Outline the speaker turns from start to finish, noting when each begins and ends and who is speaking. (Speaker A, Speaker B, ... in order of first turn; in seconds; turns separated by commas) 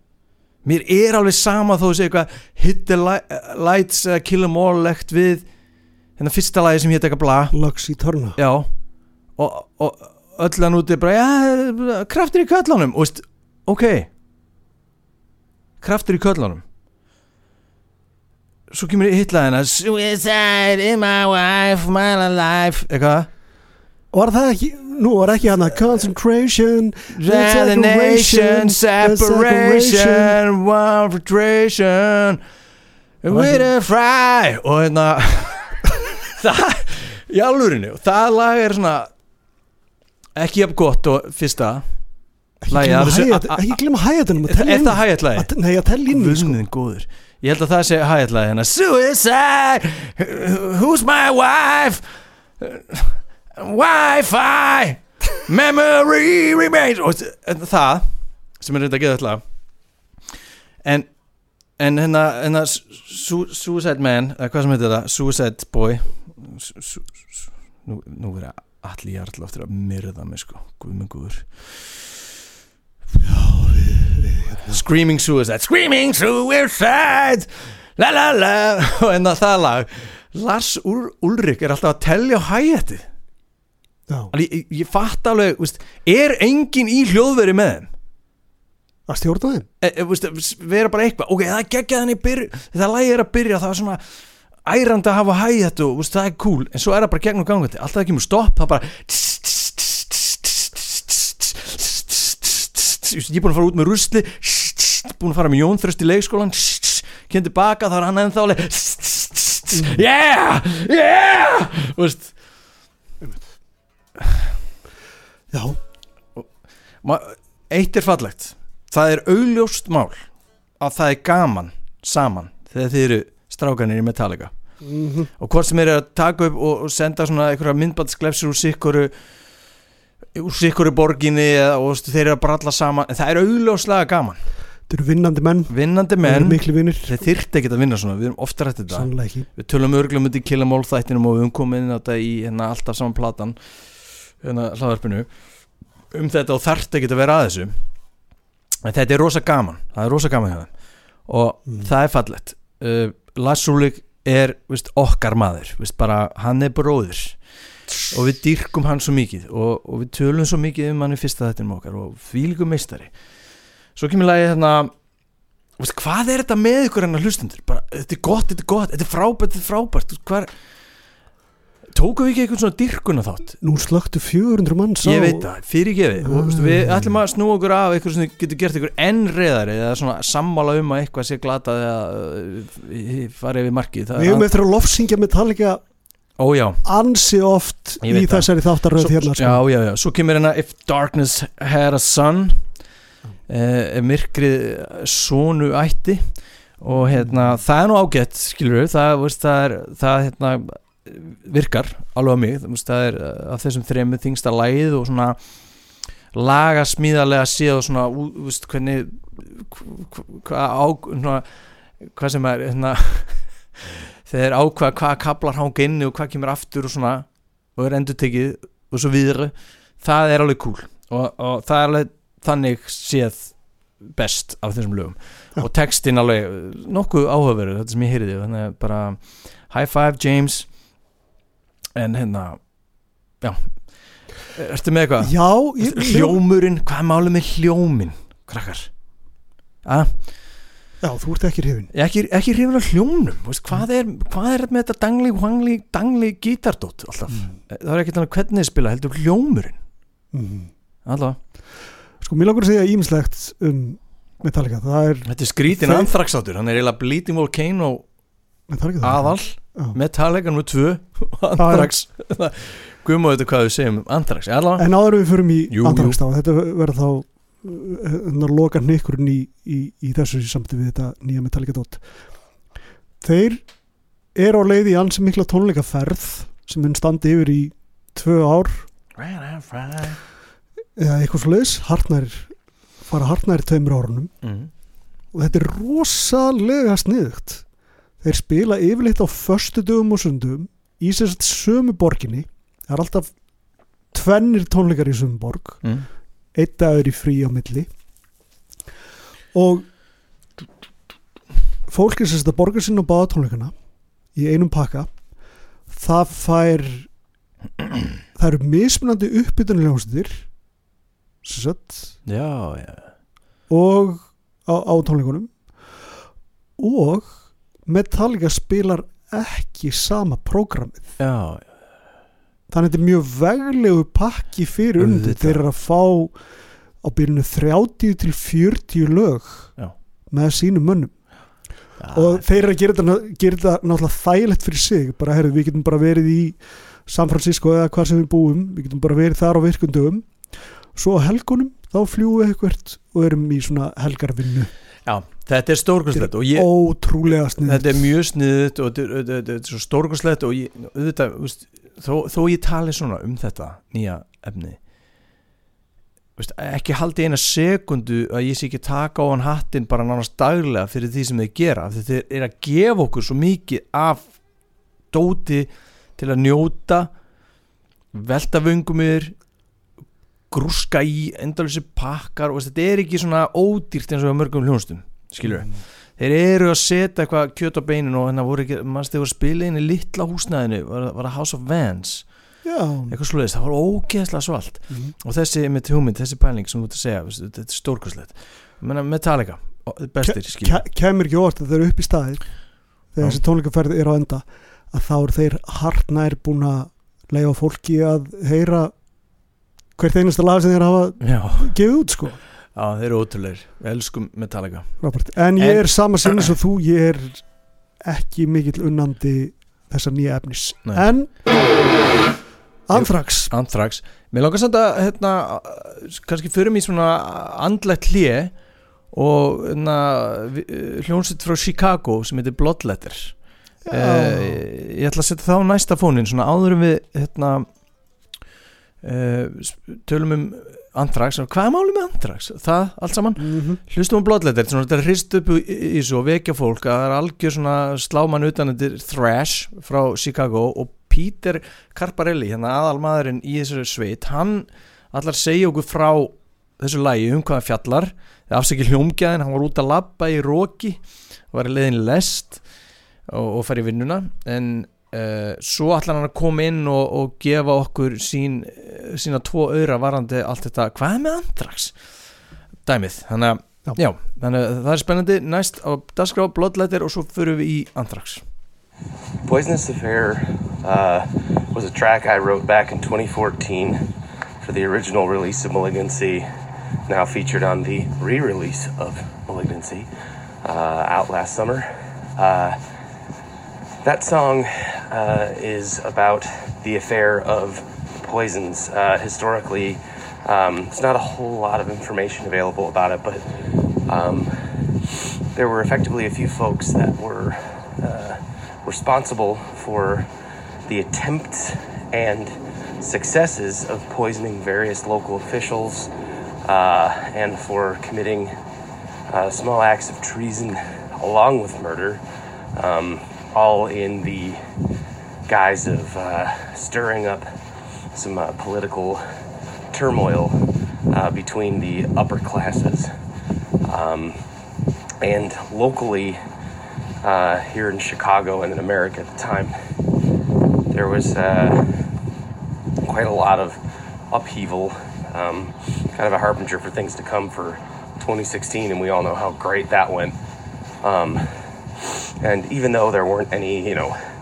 Speaker A: 0.6-5.5, Speaker A: 6.2-7.5, Speaker B: 7.5-8.4, Speaker A: 8.3-8.7, Speaker A: 9.4-14.1, Speaker A: 15.8-16.6, Speaker A: 18.7-23.3, Speaker B: 24.1-30.4, Speaker A: 27.1-32.4, Speaker A: 33.2-39.1, Speaker B: 33.3-33.7, Speaker A: 40.4-41.9, Speaker B: 42.6-46.6, Speaker A: 42.7-43.8, Speaker A: 44.4-45.5, Speaker A: 46.1-59.4, Speaker A: 61.8-72.1, Speaker B: 73.2-74.8, Speaker A: 74.7-83.0, Speaker A: 84.3-87.9, Speaker B: 89.1-89.7, Speaker A: 89.8-94.0, Speaker A: 94.6-112.3, Speaker B: 115.5-115.8, Speaker A: 117.0-124.5, Speaker B: 124.8-125.3, Speaker A: 125.4-129.1, Speaker A: 130.3-134.4, Speaker B: 134.9-137.1, Speaker A: 135.7-143.6, Speaker B: 138.9-139.5, Speaker A: 144.4-145.3, Speaker A: 146.1-147.8, Speaker A: 148.8-150.7, Speaker A: 151.2-157.4, Speaker A: 158.1-163.1, Speaker A: 163.9-164.9, Speaker A: 165.8-170.5, Speaker A: 171.9-173.6, Speaker B: 173.6-175.5, Speaker A: 175.0-184.5, Speaker B: 176.2-177.2, Speaker B: 184.2-185.8, Speaker A: 186.4-186.8, Speaker B: 186.8-189.6, Speaker A: 188.0-192.7, Speaker A: 193.5-205.4, Speaker A: 206.3-211.5, Speaker A: 212.0-213.6, Speaker A: 214.2-230.7, Speaker A: 231.9-232.6, Speaker A: 233.4-233.8, Speaker A: 234.4-238.9, Speaker B: 235.2-236.4, Speaker A: 239.8-240.1, Speaker B: 241.0-241.9, Speaker A: 241.9-249.8, Speaker B: 250.3-250.7, Speaker A: 251.1-251.4, Speaker B: 252.2-256.1, Speaker A: 255.3-258.1, Speaker B: 258.7-259.9, Speaker A: 259.0-264.9, Speaker B: 261.6-261.9, Speaker B: 264.8-272.0, Speaker A: 265.7-266.2, Speaker B: 273.2-273.6, Speaker B: 274.3-278.9, Speaker A: 279.1-280.2, Speaker B: 281.0-282.5, Speaker B: 283.0-284.3, Speaker A: 284.4-284.7, Speaker B: 285.3-287.6, Speaker B: 288.2-293.3, Speaker B: 294.1-295.8, Speaker A: 295.8-296.1, Speaker B: 296.5-297.9, Speaker B: 299.5-299.9, Speaker B: 301.9-303.7, Speaker B: 304.3-305.1, Speaker B: 305.9-307.1, Speaker B: 308.4-310.5, Speaker B: 311.4-312.1, Speaker A: 312.2-313.1, Speaker B: 313.7-315.5, Speaker B: 316.8-321.1, Speaker A: 321.2-321.7, Speaker B: 322.7-326.4, Speaker A: 325.0-325.6, Speaker B: 327.0-329.7, Speaker B: 330.3-331.1, Speaker A: 332.0-332.4, Speaker B: 332.1-344.7, Speaker A: 345.1-346.7, Speaker B: 346.1-348.0, Speaker A: 347.6-354.8, Speaker A: 356.4-364.3, Speaker A: 365.1-367.1, Speaker A: 368.1-369.3, Speaker A: 370.5-382.3, Speaker B: 382.6-383.1, Speaker A: 383.1-390.8, Speaker B: 390.2-392.5, Speaker B: 393.1-398.9, Speaker B: 400.0-402.4, Speaker A: 401.2-401.7, Speaker A: 402.7-405.0, Speaker B: 405.0-407.4, Speaker A: 405.6-406.5, Speaker B: 408.0-411.3, Speaker B: 412.9-413.5, Speaker A: 412.9-418.5, Speaker A: 419.1-423.3, Speaker B: 423.8-424.6, Speaker A: 423.9-427.7, Speaker A: 429.0-451.0, Speaker B: 433.4-433.8, Speaker A: 451.5-452.6, Speaker A: 453.3-461.9, Speaker A: 462.8-468.4, Speaker C: 469.4-474.1, Speaker C: 474.6-476.5, Speaker C: 477.1-480.1, Speaker C: 480.6-482.8, Speaker C: 484.0-493.5, Speaker C: 494.0-494.5, Speaker C: 495.1-500.3, Speaker C: 500.9-506.1, Speaker C: 506.6-508.5, Speaker C: 509.3-512.2, Speaker C: 512.7-514.6, Speaker C: 515.5-517.5, Speaker C: 518.1-519.2, Speaker C: 519.9-523.1, Speaker C: 523.8-524.4, Speaker C: 525.2-526.4, Speaker C: 527.2-529.7, Speaker C: 530.9-531.9, Speaker C: 533.0-540.4, Speaker C: 541.0-541.5, Speaker C: 542.0-544.2